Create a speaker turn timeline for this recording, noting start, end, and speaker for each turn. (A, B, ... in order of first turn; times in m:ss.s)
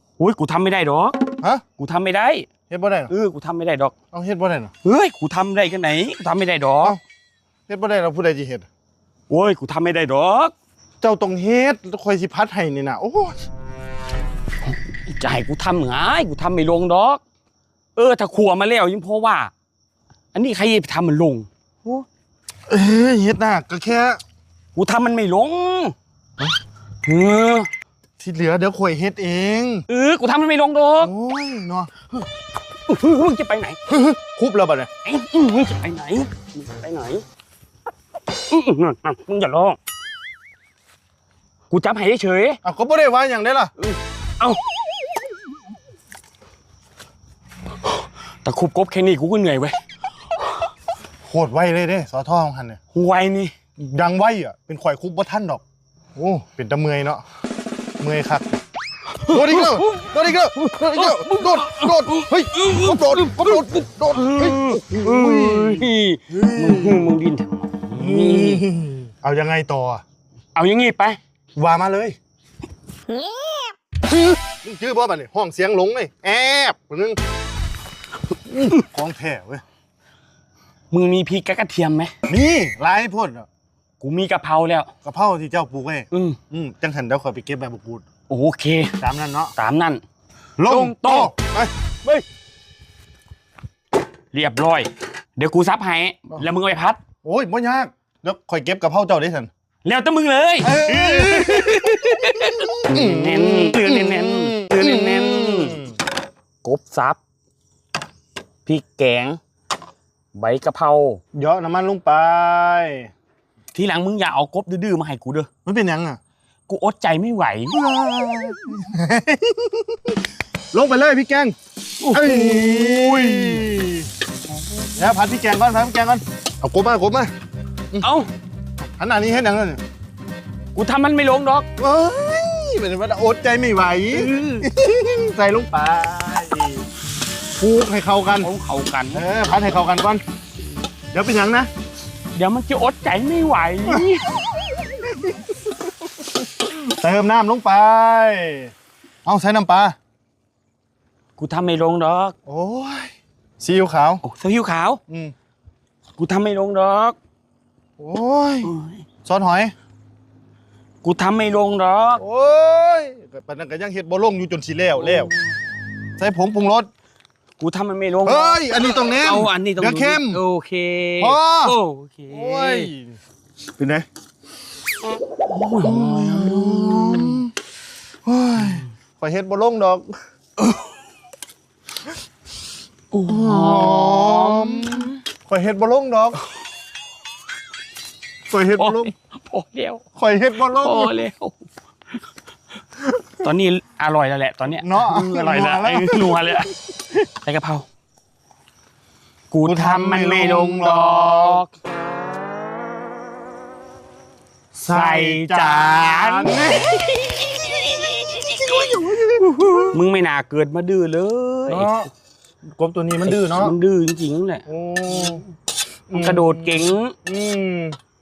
0:00.2-0:01.2 A
0:01.8-0:02.5 A
0:02.7-0:03.1 B
0:03.1-0:04.0 A
0:04.1-0:04.7 B
0:04.8-0:07.0 A
0:07.7-0:08.7 B
0:09.3-0:10.5 A
0:11.0-0:13.4 B
0:14.6-0:17.2 A
0:18.0-0:19.5 A
0:20.3-0:22.0 A
0:22.7-0:24.2 B
0:24.7-0:26.0 A
0:27.0-0:27.7 A
0:28.2-0:29.8 B
0:29.9-0:31.1 A
0:31.0-0:31.9 B
0:32.9-0:33.8 A
0:33.9-0:34.9 B
0:35.0-0:37.2 A
0:38.3-0:39.8 A
0:41.7-0:42.6 A
0:42.6-0:43.7 B
0:43.8-0:44.6 A
0:48.4-0:49.8 A
0:51.3-0:52.8 B
0:52.9-0:53.5 A
0:53.8-0:55.6 B
0:56.2-0:57.2 B
0:58.0-0:58.5 B
0:59.1-1:08.6 A
0:59.2-1:07.1 B
1:07.9-1:10.0 B
1:10.6-1:11.2 A
1:11.6-1:12.2 B
1:14.1-1:17.2 B
1:18.5-1:19.6 B
1:20.9-1:22.1 A
1:22.3-1:23.5 B
1:24.0-1:24.9 A
1:25.0-1:28.0 B
1:26.1-1:26.4 A
1:28.3-1:29.0 A
1:29.0-1:29.5 B
1:29.6-1:30.0 A
1:30.6-1:32.2 B
1:30.6-1:31.3 A
1:34.3-1:37.0 A
1:37.2-1:39.5 B
1:39.8-1:45.8 A
1:40.6-1:42.1 B
1:42.9-1:46.0 B
1:46.6-1:47.2 A
1:48.6-1:49.4 A
1:50.3-1:51.2 A
1:51.3-1:53.1 B
1:53.7-1:55.5 A
1:55.6-1:56.2 B
1:56.7-1:57.8 A
1:57.7-2:00.2 B
2:00.7-2:01.6 B
2:02.0-2:03.6 A
2:02.1-2:04.1 B
2:05.0-2:07.3 B
2:08.0-2:08.3 A
2:09.0-2:09.8 B
2:10.8-2:11.7 A
2:11.8-2:16.8 B
2:14.1-2:14.7 A
2:17.6-2:18.5 B
2:18.4-2:19.2 A
2:19.1-2:20.2 B
2:21.1-2:21.7 B
2:22.4-2:24.3 A
2:23.9-2:24.2 B
2:27.0-2:28.7 B
2:29.3-2:30.0 B
2:31.4-2:32.4 A
2:32.5-2:34.2 B
2:34.2-2:35.0 A
2:35.1-2:35.3 B
2:36.2-2:37.2 A
2:38.0-2:38.7 B
2:38.6-2:39.0 A
2:39.2-2:39.7 B
2:41.0-2:42.2 A
2:42.2-2:45.3 B
2:46.2-2:46.9 B
2:47.6-2:52.9 A
2:48.2-2:50.4 B
2:51.2-2:51.8 B
2:52.3-2:53.2 B
2:53.8-2:54.0 B
2:55.5-2:57.4 A
2:55.8-2:57.5 B
2:58.3-3:00.1 B
3:03.1-3:05.2 A
3:03.3-3:06.4 B
3:08.5-3:09.1 B
3:08.8-3:10.0 A
3:10.2-3:11.2 B
3:10.6-3:11.6 A
3:13.4-3:16.7 A
3:14.8-3:16.6 B
3:17.3-3:17.9 A
3:19.5-3:21.7 A
3:19.6-3:21.6 B
3:24.8-3:26.9 B
3:24.9-3:29.0 A
3:28.6-3:30.0 B
3:29.9-3:32.0 A
3:31.7-3:32.1 B
3:32.8-3:33.8 B
3:33.2-3:35.4 A
3:34.7-3:35.4 B
3:36.1-3:38.0 B
3:36.1-3:37.2 A